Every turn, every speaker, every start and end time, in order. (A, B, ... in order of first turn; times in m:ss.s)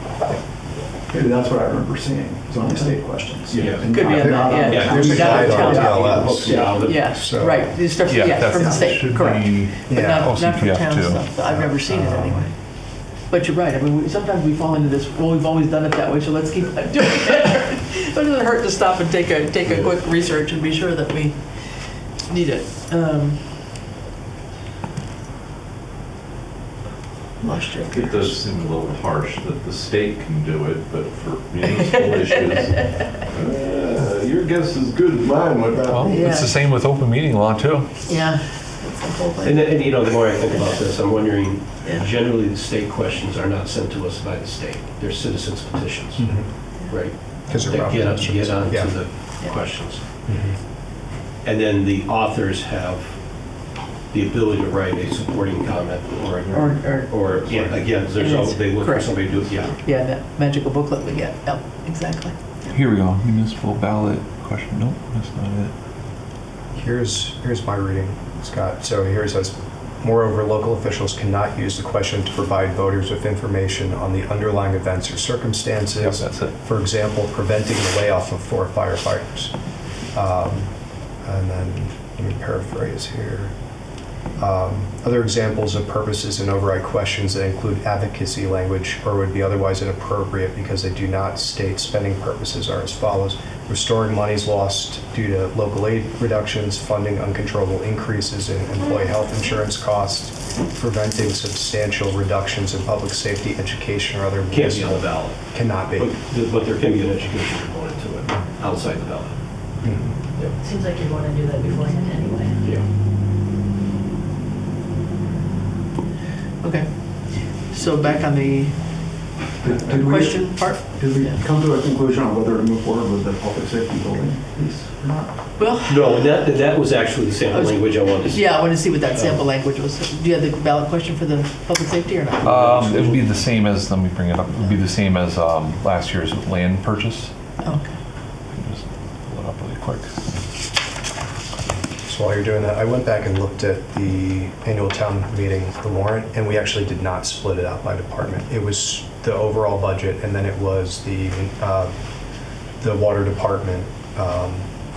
0:01.1-0:06.7 A
0:03.5-0:03.9 B
0:03.8-0:21.6 C
0:04.0-0:07.6 D
0:04.6-0:07.3 B
0:08.1-0:11.2 E
0:08.6-0:08.8 A
0:09.9-0:10.2 D
0:11.5-0:12.4 D
0:22.1-0:23.5 C
0:27.4-0:28.3 C
0:27.9-0:36.3 F
0:31.7-0:33.2 C
0:35.9-0:38.0 E
0:36.0-0:36.5 C
0:38.0-0:39.8 C
0:39.4-0:50.0 B
0:40.5-0:40.8 C
0:46.2-0:46.5 D
0:47.5-0:48.9 D
0:50.2-0:50.6 D
0:51.4-0:53.1 B
0:54.1-0:59.8 B
0:56.5-0:57.3 C
0:57.5-0:57.8 D
0:58.1-0:59.2 C
0:59.8-1:02.3 C
1:02.7-1:05.7 E
1:06.7-1:19.5 D
1:16.0-1:16.5 E
1:20.1-1:20.7 D
1:21.2-1:23.5 D
1:24.4-1:46.1 D
1:44.5-1:49.4 B
1:49.8-1:50.2 D
1:50.6-1:52.6 G
1:56.6-1:58.8 C
1:59.6-2:05.4 A
1:59.8-2:01.4 C
2:05.6-2:06.4 C
2:05.8-2:09.4 B
2:07.5-2:12.6 C
2:12.4-2:13.2 B
2:12.4-2:17.3 E
2:17.6-2:18.0 C
2:18.5-2:20.1 E
2:22.1-2:31.9 D
2:32.8-2:34.7 D